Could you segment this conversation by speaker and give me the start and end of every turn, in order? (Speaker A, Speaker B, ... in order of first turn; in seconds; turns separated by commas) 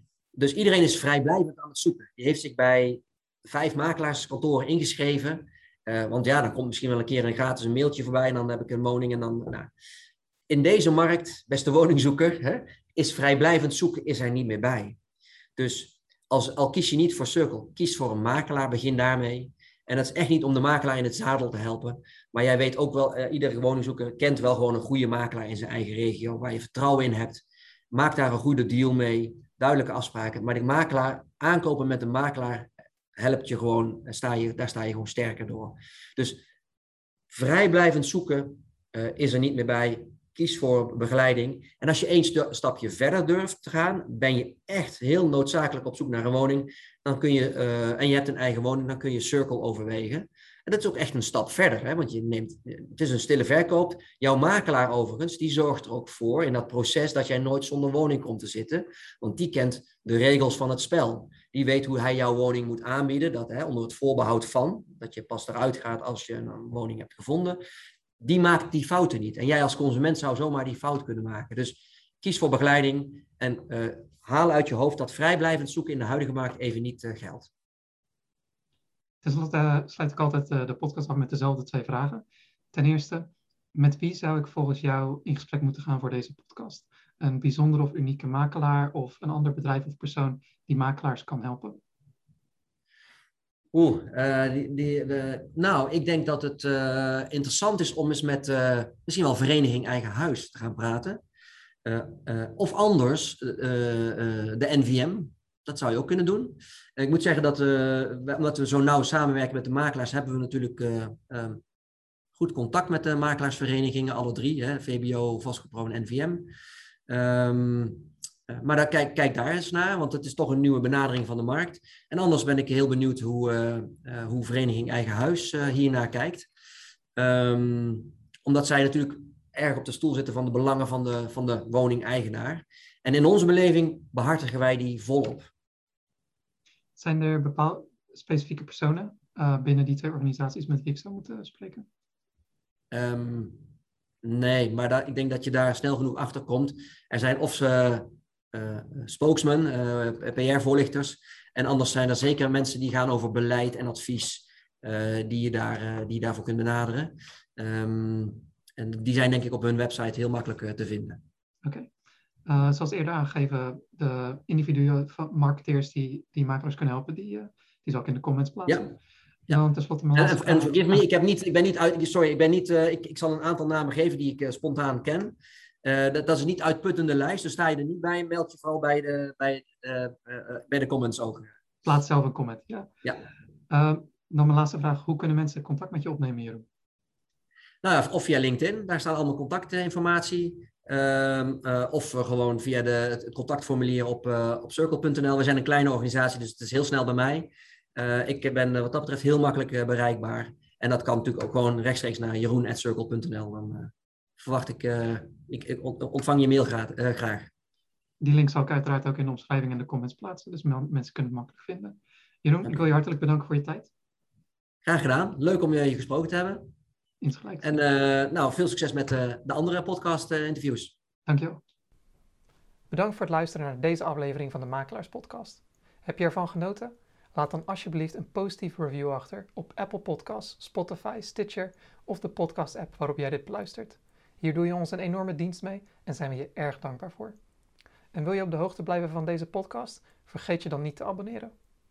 Speaker A: 0.3-9.7, Speaker A: 10.5-15.0, Speaker A: 15.6-36.4, Speaker A: 37.3-67.6, Speaker A: 68.2-77.5, Speaker B: 79.2-91.8, Speaker A: 93.7-101.2, Speaker A: 101.8-111.6, Speaker A: 112.3-116.5, Speaker A: 117.1-126.5, Speaker A: 127.2-135.5, Speaker B: 137.0-141.8, Speaker A: 142.9-143.6, Speaker A: 144.2-161.2, Speaker B: 161.6-161.9, Speaker B: 162.4-168.9, Speaker B: 169.5-171.0, Speaker A: 170.2-181.5, Speaker B: 181.8-182.9, Speaker B: 183.7-186.6, Speaker A: 187.8-207.5, Speaker B: 208.2-213.9, Speaker A: 214.8-216.6, Speaker B: 217.2-217.7, Speaker A: 217.6-220.9, Speaker B: 221.2-221.6, Speaker B: 222.9-237.4, Speaker B: 238.1-241.5